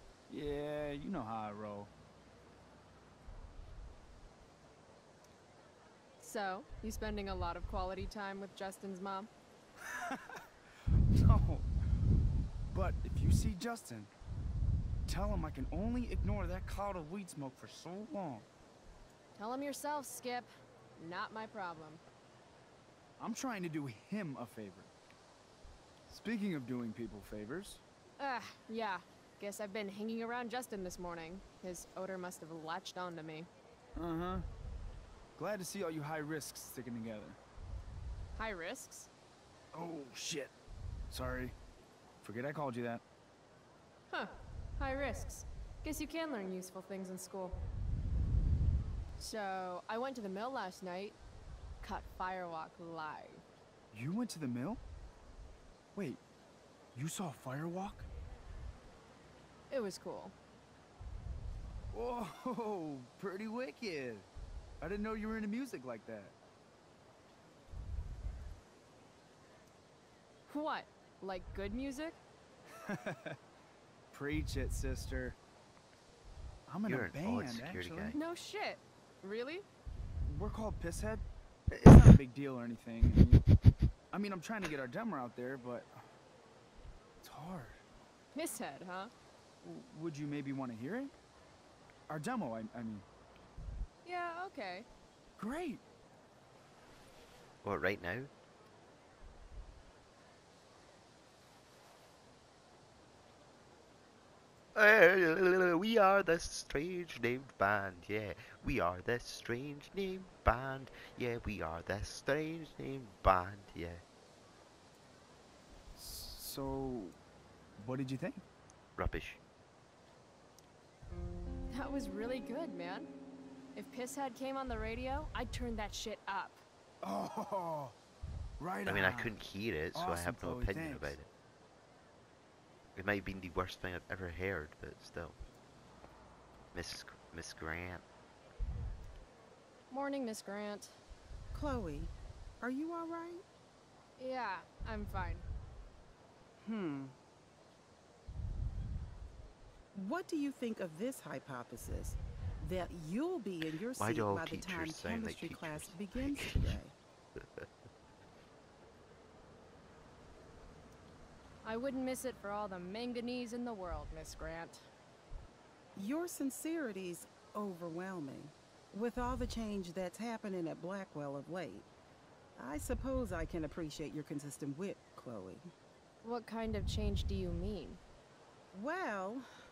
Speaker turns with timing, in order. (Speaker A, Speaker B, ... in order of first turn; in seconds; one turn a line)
Speaker A: 0.3-1.9
Speaker B: 6.2-9.3
Speaker A: 9.8-10.4
Speaker A: 11.1-11.7
Speaker A: 12.7-14.1
Speaker A: 15.1-18.4
Speaker B: 19.4-22.0
Speaker A: 23.2-24.9
Speaker A: 26.1-27.8
Speaker B: 28.2-33.5
Speaker A: 34.0-34.5
Speaker A: 35.4-37.4
Speaker B: 38.4-39.1
Speaker A: 39.7-40.5
Speaker A: 41.1-41.5
Speaker A: 42.2-43.0
Speaker B: 44.1-47.6
Speaker B: 49.2-51.2
Speaker B: 51.8-53.4
Speaker A: 53.9-54.8
Speaker A: 55.9-56.2
Speaker A: 56.9-58.1
Speaker B: 59.7-60.3
Speaker A: 61.9-64.3
Speaker A: 64.8-66.3
Speaker B: 70.5-72.2
Speaker A: 72.9-73.3
Speaker A: 74.1-75.4
Speaker A: 76.7-78.2
Speaker C: 76.8-78.2
Speaker B: 78.1-79.6
Speaker A: 80.2-83.4
Speaker A: 84.1-86.0
Speaker A: 87.2-87.8
Speaker B: 88.3-89.1
Speaker A: 89.6-91.1
Speaker A: 92.1-93.0
Speaker B: 94.0-94.8
Speaker A: 95.4-95.8
Speaker C: 97.6-98.3
Speaker C: 104.7-114.0
Speaker A: 116.0-117.2
Speaker A: 117.8-118.4
Speaker C: 119.0-119.4
Speaker B: 121.7-123.1
Speaker B: 123.7-126.6
Speaker A: 127.0-127.9
Speaker A: 128.6-129.3
Speaker C: 128.8-131.3
Speaker A: 129.9-131.2
Speaker C: 132.9-135.4
Speaker C: 136.7-138.0
Speaker B: 139.9-141.0
Speaker D: 141.5-143.4
Speaker B: 144.2-145.4
Speaker D: 146.6-147.1
Speaker D: 149.9-156.9
Speaker C: 153.9-156.8
Speaker C: 157.3-157.7
Speaker B: 161.6-164.8
Speaker D: 165.9-171.9
Speaker D: 172.6-175.7
Speaker B: 176.2-178.0
Speaker D: 178.7-179.4